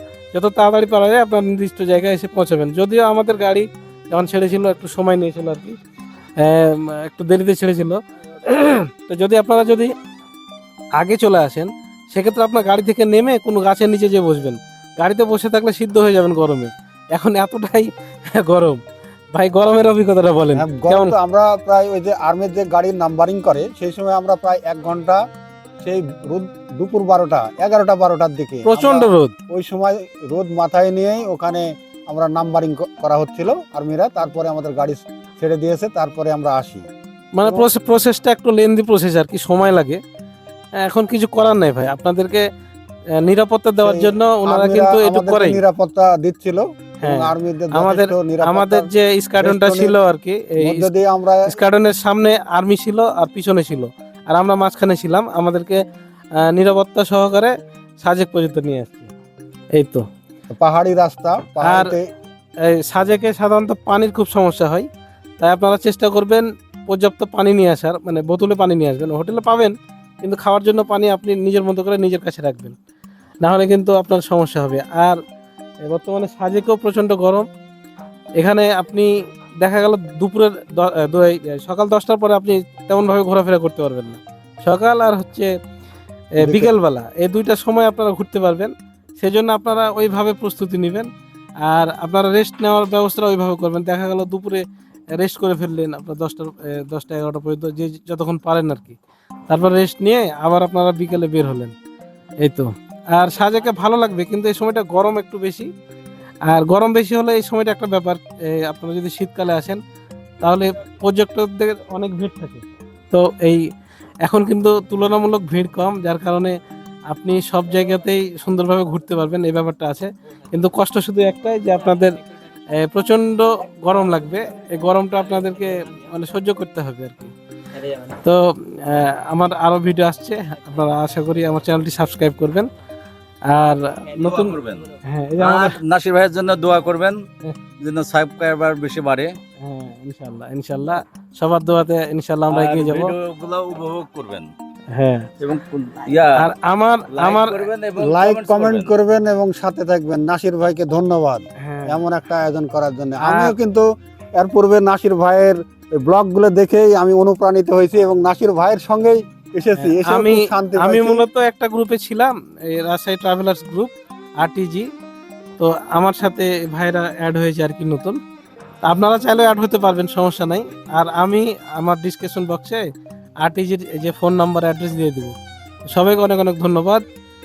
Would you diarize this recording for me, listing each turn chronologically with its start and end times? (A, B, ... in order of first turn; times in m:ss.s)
0:00.3-0:05.8 A
0:06.4-0:09.9 A
0:11.0-0:18.8 A
0:19.3-0:21.2 A
0:20.6-0:25.2 B
0:25.8-0:36.9 B
0:28.7-0:29.3 A
0:37.4-0:40.0 A
0:40.8-0:42.4 A
0:43.2-0:45.6 A
0:43.8-0:50.0 B
0:47.0-0:50.9 A
0:50.6-0:51.6 B
0:51.5-0:55.8 A
0:56.4-0:59.1 A
0:59.8-1:00.1 A
1:00.5-1:02.1 B
1:01.6-1:01.9 A
1:02.6-1:04.9 A
1:05.4-1:12.8 A
1:13.4-1:15.2 A
1:15.8-1:17.4 A
1:18.4-1:19.1 A
1:19.6-1:25.5 A
1:26.4-1:31.1 A
1:26.4-1:26.7 B
1:31.6-1:34.6 A
1:35.1-1:39.0 A
1:39.5-1:41.7 A
1:42.4-1:45.7 A
1:46.5-1:49.8 A
1:50.4-1:53.6 A
1:54.2-1:56.6 A
1:57.1-2:02.2 A
2:02.7-2:07.3 A
2:08.1-2:12.7 A
2:13.5-2:15.8 A
2:14.2-2:17.2 C
2:17.8-2:19.4 C
2:19.6-2:23.1 A
2:22.5-2:24.5 C
2:24.9-2:25.3 A
2:25.4-2:26.4 C
2:26.4-2:27.7 A
2:27.1-2:28.9 C
2:28.0-2:33.8 B
2:31.6-2:32.0 A
2:33.2-2:33.6 A
2:34.4-2:41.2 B
2:39.8-2:44.9 A
2:45.6-2:48.2 A
2:48.9-2:52.8 A
2:53.4-2:55.3 A
2:55.9-2:57.0 A